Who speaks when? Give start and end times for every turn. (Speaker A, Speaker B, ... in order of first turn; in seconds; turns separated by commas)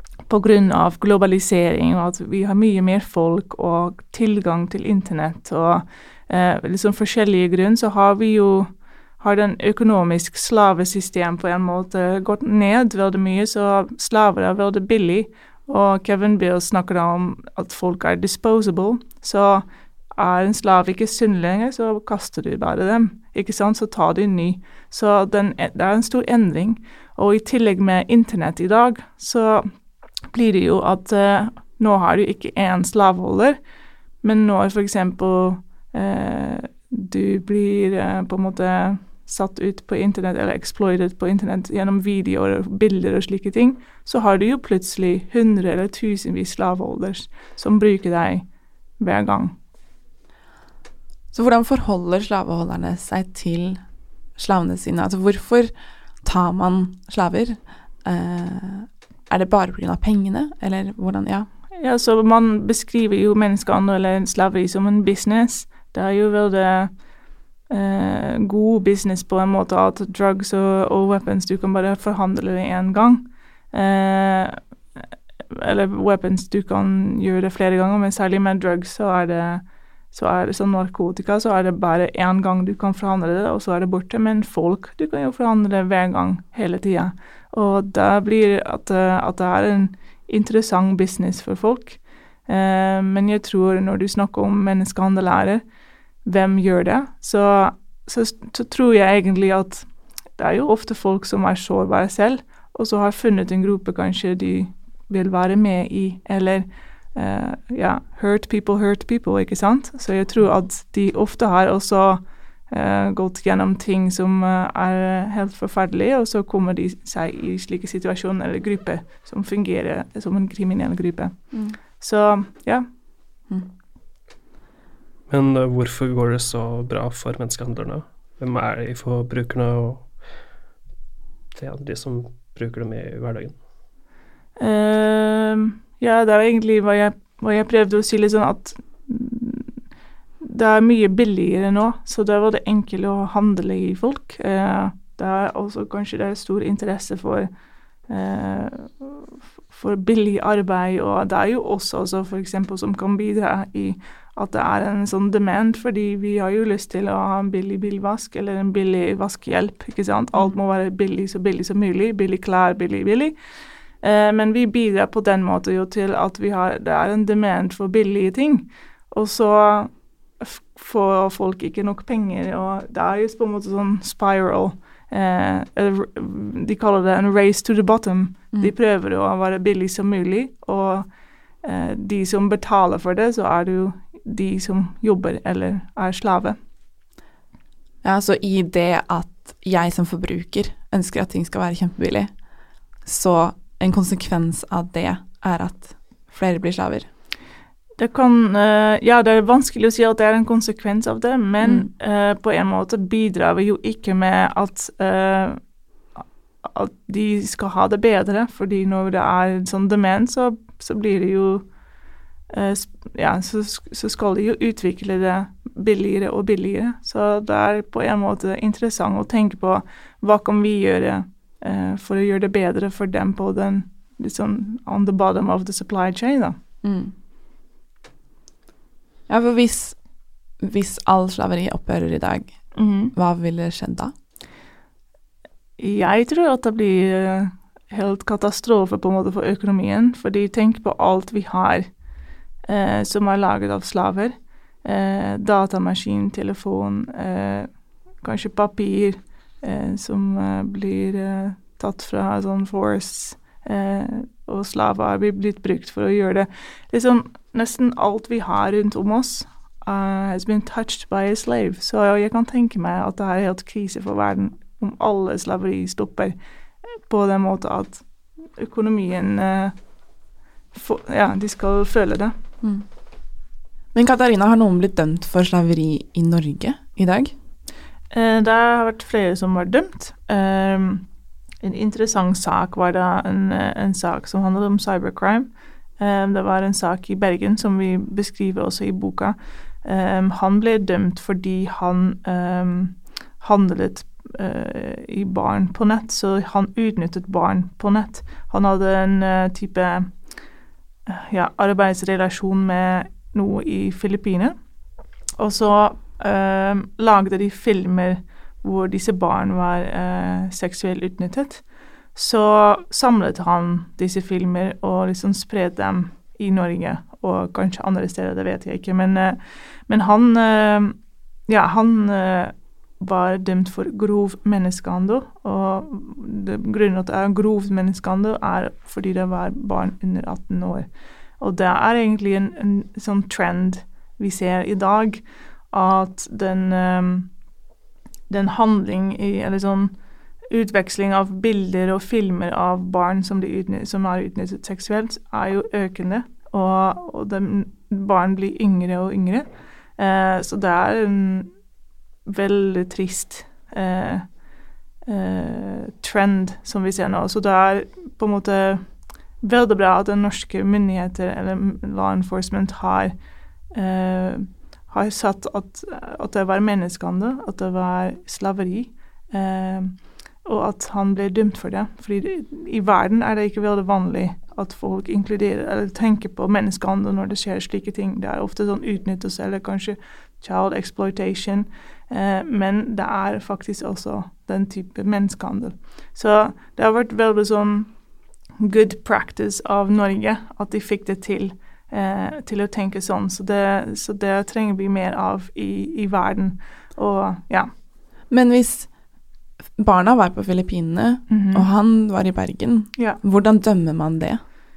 Speaker A: 0.3-29.7, Speaker A: 30.3-33.6, Speaker A: 34.2-48.5, Speaker A: 49.0-49.5, Speaker B: 51.3-53.8, Speaker B: 54.4-61.5, Speaker A: 61.8-67.0, Speaker A: 67.7-95.6, Speaker A: 96.2-122.9, Speaker B: 121.5-121.8, Speaker C: 125.3-130.2, Speaker C: 131.5-133.6, Speaker A: 134.6-139.7, Speaker A: 140.4-147.5, Speaker A: 148.1-163.4, Speaker A: 164.0-181.1, Speaker A: 181.6-186.6, Speaker B: 188.0-192.3, Speaker B: 193.0-197.1, Speaker A: 198.0-205.6, Speaker B: 201.6-201.9, Speaker A: 206.6-211.7, Speaker A: 212.5-226.6, Speaker B: 226.8-227.1, Speaker B: 229.3-230.0, Speaker B: 230.6-234.1, Speaker A: 232.8-233.1, Speaker A: 235.8-241.9, Speaker A: 242.7-269.8, Speaker A: 270.7-272.3, Speaker B: 273.9-277.4, Speaker A: 278.1-281.1, Speaker A: 281.6-300.2, Speaker A: 301.1-304.6, Speaker A: 305.4-337.3, Speaker A: 338.3-339.9, Speaker A: 340.5-351.5, Speaker A: 352.3-354.3, Speaker A: 355.1-363.1, Speaker A: 363.7-388.0, Speaker A: 388.6-397.7, Speaker B: 398.3-398.9, Speaker B: 399.8-404.4, Speaker A: 401.3-401.7